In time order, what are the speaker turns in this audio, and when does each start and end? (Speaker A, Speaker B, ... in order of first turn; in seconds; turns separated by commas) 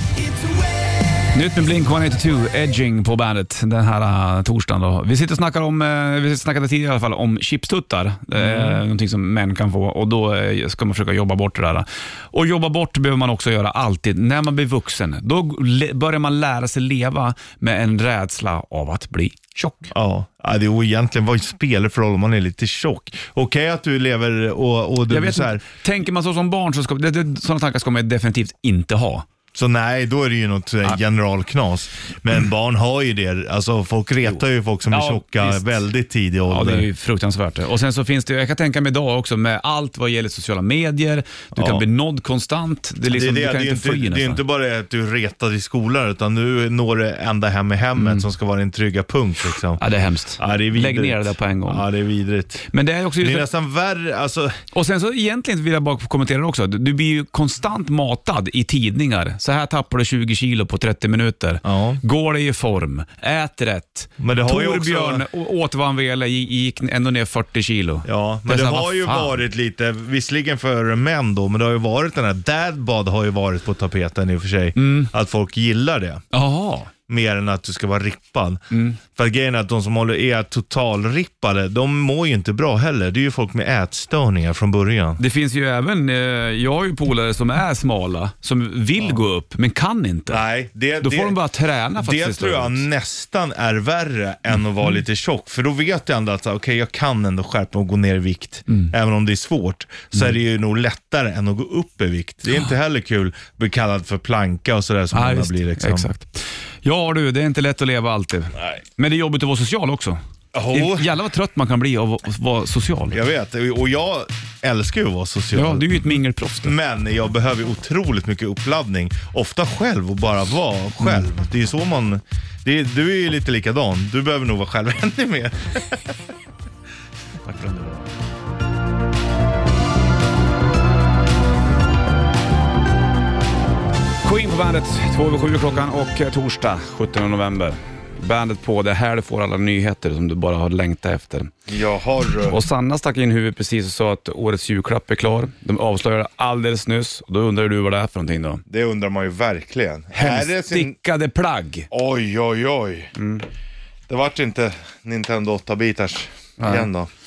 Speaker A: 1.3-19.9, Speaker B: 8.4-8.8, Speaker B: 19.9-25.6, Speaker A: 25.1-29.3, Speaker B: 29.6-36.9, Speaker A: 34.9-35.8, Speaker A: 36.5-44.4, Speaker B: 41.5-41.8, Speaker B: 43.1-49.8, Speaker A: 48.0-48.3, Speaker A: 49.8-51.9, Speaker B: 50.4-54.6, Speaker A: 52.7-53.5, Speaker A: 54.7-69.4, Speaker B: 61.6-62.0, Speaker B: 64.2-65.2, Speaker B: 68.0-76.2, Speaker A: 74.8-75.1, Speaker A: 76.3-76.9, Speaker B: 77.1-85.2, Speaker A: 78.7-79.0, Speaker A: 85.2-90.4, Speaker B: 90.3-91.4, Speaker A: 91.0-92.8, Speaker B: 92.0-106.1, Speaker A: 105.1-110.2, Speaker B: 110.5-111.1, Speaker A: 110.7-113.2, Speaker B: 113.1-115.9, Speaker A: 115.5-116.8, Speaker B: 116.6-126.0, Speaker A: 127.5-128.0, Speaker A: 134.2-141.5, Speaker B: 141.7-142.6, Speaker A: 142.5-148.6, Speaker B: 148.7-151.0, Speaker A: 150.1-151.9, Speaker B: 151.9-153.1, Speaker A: 153.2-153.5, Speaker B: 154.1-157.1, Speaker A: 156.6-156.9